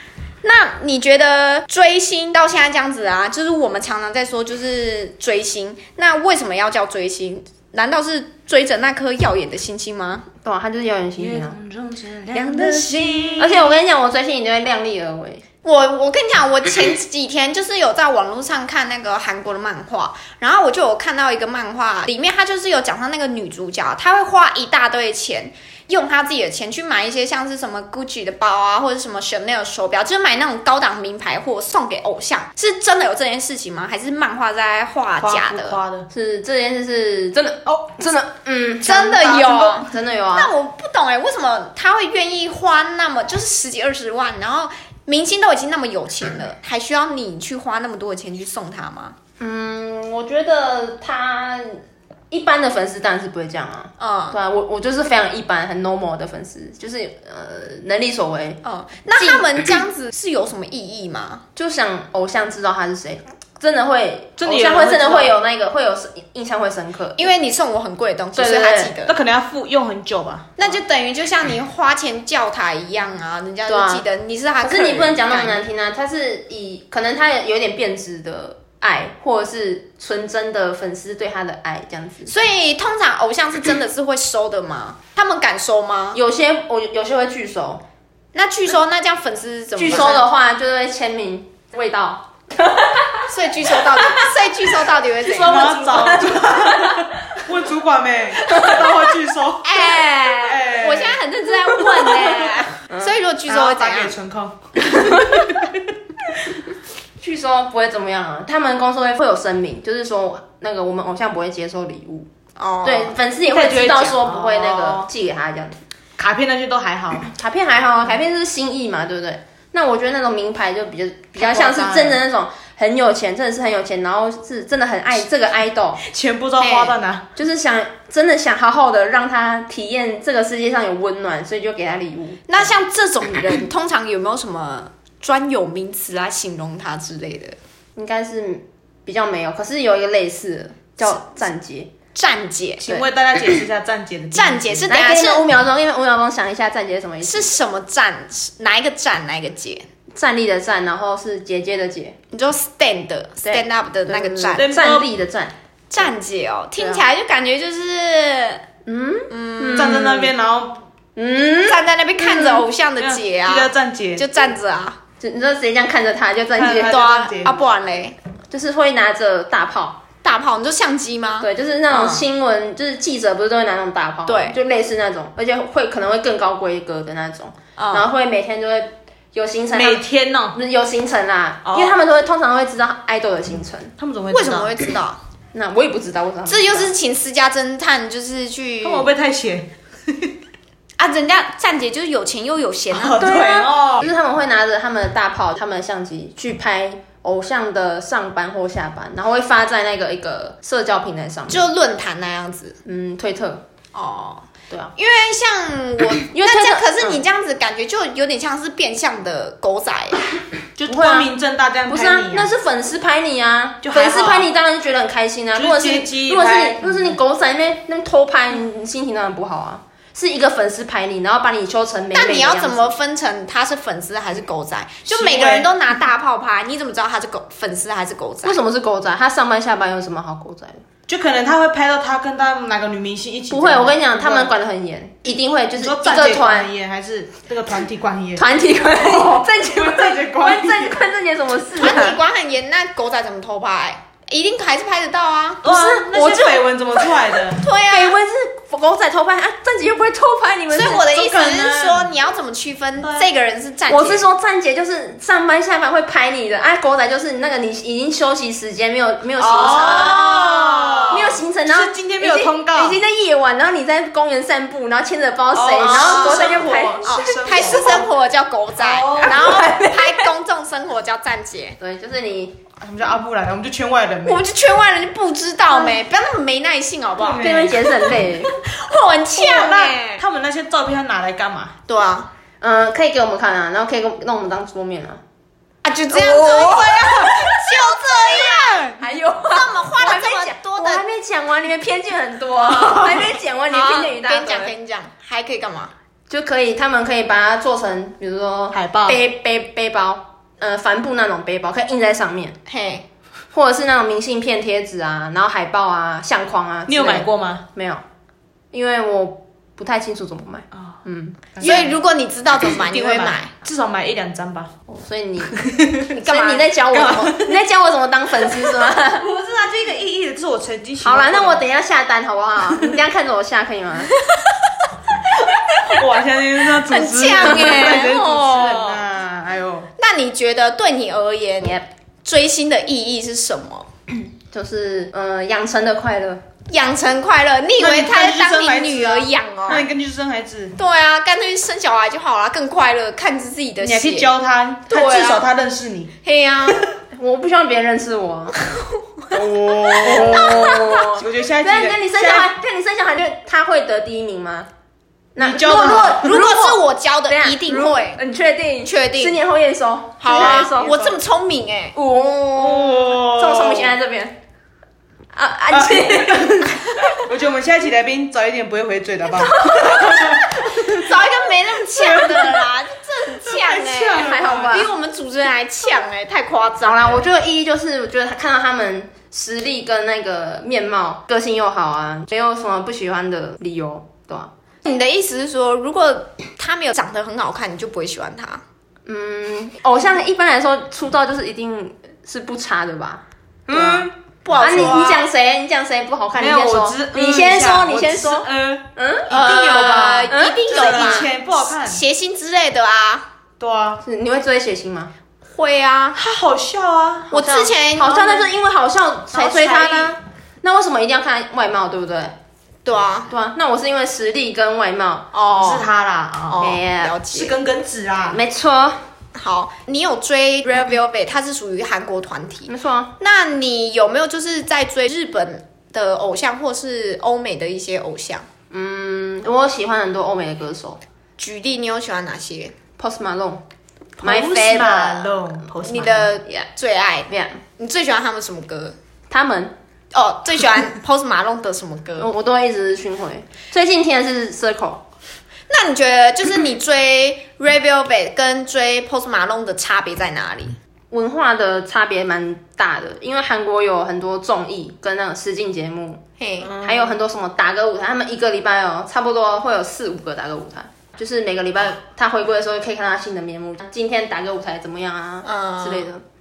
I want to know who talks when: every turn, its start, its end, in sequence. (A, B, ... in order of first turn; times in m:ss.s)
0:00.4-0:10.3 A
0:10.4-0:11.6 B
0:11.2-0:13.7 C
0:12.3-0:13.5 A
0:13.4-0:15.4 B
0:15.6-0:35.8 A
0:35.2-0:36.1 C
0:36.1-0:40.5 B
0:38.8-0:49.2 A
0:49.4-0:58.6 B
0:54.0-0:54.4 A
0:58.6-1:01.4 A
0:59.2-0:59.5 B
1:01.6-1:07.3 B
1:04.4-1:05.4 C
1:07.2-1:09.1 A
1:08.4-1:09.0 B
1:09.1-1:10.6 C
1:10.6-1:15.6 A
1:13.7-1:14.0 B
1:14.6-1:22.3 B
1:22.3-1:26.2 A
1:26.1-1:27.8 B
1:28.3-1:30.3 A
1:29.8-1:34.5 B
1:33.3-1:35.8 A
1:35.3-1:37.1 B
1:35.4-1:41.2 C
1:38.4-1:39.1 B
1:39.6-1:44.1 A
1:41.9-1:42.3 B
1:43.5-1:45.7 C
1:44.9-1:45.5 B
1:47.2-1:52.3 B
1:52.6-1:53.2 A
1:52.8-1:55.8 B
1:53.5-1:55.1 C
1:56.2-1:57.3 C
1:57.3-2:06.0 B
2:01.4-2:02.2 C
2:06.0-2:07.3 C
2:06.6-2:07.0 A
2:07.4-2:12.7 B
2:12.5-2:17.6 A
2:18.0-2:21.9 B
2:22.2-2:23.1 A
2:22.8-2:24.9 C
2:24.3-2:25.5 A
2:24.9-2:27.5 B
2:27.2-2:29.9 A
2:30.1-2:32.2 B
2:32.3-2:34.7 A
2:33.4-2:35.5 B
2:34.6-2:35.1 C
2:35.9-2:38.6 A
2:36.8-2:37.0 B
2:38.9-2:40.3 B
2:39.3-2:40.1 A
2:39.8-2:40.8 C
2:41.2-2:42.6 B
2:41.6-2:45.0 A
2:43.0-2:44.3 C
2:45.2-2:47.1 B
2:46.6-2:47.6 C
2:46.9-2:48.2 A
2:48.5-2:50.0 B
2:50.2-2:52.2 A
2:51.4-3:03.9 B
2:54.3-2:54.6 A
2:57.8-2:58.1 A
2:59.7-3:00.6 C
3:01.6-3:01.9 C
3:04.0-3:04.8 C
3:04.3-3:05.2 A
3:05.5-3:06.9 B
3:06.5-3:09.1 A
3:08.8-3:10.3 C
3:11.0-3:13.3 A
3:12.9-3:14.1 C
3:13.2-3:21.7 B
3:21.5-3:22.8 A
3:22.8-3:23.7 B
3:23.9-3:30.2 A
3:26.3-3:27.2 B
3:30.8-3:32.5 C
3:30.9-3:31.3 B
3:31.9-3:42.9 B
3:33.8-3:34.5 C
3:35.6-3:37.2 C
3:42.1-3:48.6 A
3:45.1-3:45.7 C
3:48.4-3:50.8 B
3:51.1-3:54.5 C
3:53.5-3:56.7 B
3:55.8-4:01.0 C
3:58.4-4:02.2 B
4:01.8-4:05.6 A
4:05.6-4:07.6 C
4:05.6-4:06.6 B
4:07.5-4:08.2 A
4:07.9-4:11.3 B
4:10.7-4:14.3 A
4:11.1-4:12.1 C
4:13.0-4:13.3 C
4:13.9-4:20.2 B
4:19.4-4:23.0 C
4:19.5-4:21.2 A
4:21.1-4:28.0 B
4:25.5-4:28.1 C
4:25.8-4:31.8 A
4:28.8-4:29.5 C
4:29.2-4:30.3 B
4:31.8-4:32.6 B
4:32.8-4:34.4 C
4:34.2-4:37.5 A
4:37.2-4:38.2 C
4:37.4-4:38.5 B
4:38.5-4:40.2 A
4:39.3-4:41.7 C
4:41.9-4:42.3 A
4:42.6-4:45.2 B
4:45.8-4:48.9 A
4:46.1-4:49.0 C
4:49.0-4:54.7 B
4:49.5-4:51.0 A
4:53.7-4:55.9 A
4:56.3-5:02.6 B
4:58.7-4:59.2 C
5:02.7-5:03.0 A
5:03.5-5:08.0 B
5:06.9-5:07.6 C
5:08.7-5:11.9 B
5:11.6-5:12.0 C
5:11.6-5:13.5 A
5:12.6-5:14.7 C
5:14.9-5:15.6 B
5:15.5-5:16.1 C
5:16.1-5:19.3 B
5:16.1-5:16.7 A
5:16.9-5:17.6 C
5:18.7-5:21.6 C
5:21.0-5:24.1 B
5:25.8-5:29.9 C
5:26.8-5:29.0 A
5:27.5-5:27.8 B
5:30.0-5:33.9 A
5:34.1-5:36.4 B
5:36.7-5:39.9 A
5:37.8-5:40.8 C
5:40.8-5:44.3 A
5:43.8-5:46.1 C
5:44.9-5:45.5 A
5:46.2-5:46.8 A
5:47.1-5:48.6 B
5:49.3-5:52.5 C
5:49.9-5:54.7 B
5:50.1-5:50.8 A
5:55.4-6:01.2 B
5:55.4-5:56.4 C
5:55.8-5:58.2 A
5:58.8-5:59.4 A
6:00.2-6:02.0 A
6:00.4-6:00.7 C
6:02.0-6:04.4 B
6:02.5-6:03.9 C
6:05.3-6:07.2 B
6:05.7-6:11.2 C
6:09.4-6:10.5 B
6:09.6-6:17.2 A
6:11.9-6:12.7 C
6:13.4-6:14.8 C
6:14.2-6:14.9 B
6:16.8-6:24.5 B
6:24.8-6:28.6 A
6:29.1-6:41.3 B
6:33.7-6:34.1 C
6:33.8-6:35.2 A
6:36.4-6:42.0 C
6:39.3-6:43.3 A
6:43.6-6:44.0 C
6:44.0-6:45.1 B
6:45.5-6:46.2 A
6:46.2-6:47.3 C
6:47.3-6:48.4 A
6:47.3-6:52.4 B
6:49.3-6:50.2 C
6:52.8-6:53.3 A
6:53.3-6:55.3 B
6:55.3-6:55.9 A
6:55.5-6:56.7 C
6:56.5-6:57.6 A
6:56.6-6:57.2 B
6:57.3-6:58.4 C
6:58.3-6:59.0 B
6:59.4-7:08.5 A
7:02.7-7:03.1 B
7:08.7-7:11.0 B
7:11.4-7:12.7 A
7:13.0-7:13.6 B
7:14.2-7:16.3 C
7:14.2-7:15.6 B
7:15.8-7:19.0 A
7:17.3-7:17.6 B
7:19.3-7:19.8 B
7:20.1-7:22.3 A
7:22.2-7:25.0 B
7:25.7-7:30.8 A
7:31.1-7:46.2 B
7:36.4-7:36.7 A
7:45.4-7:46.1 A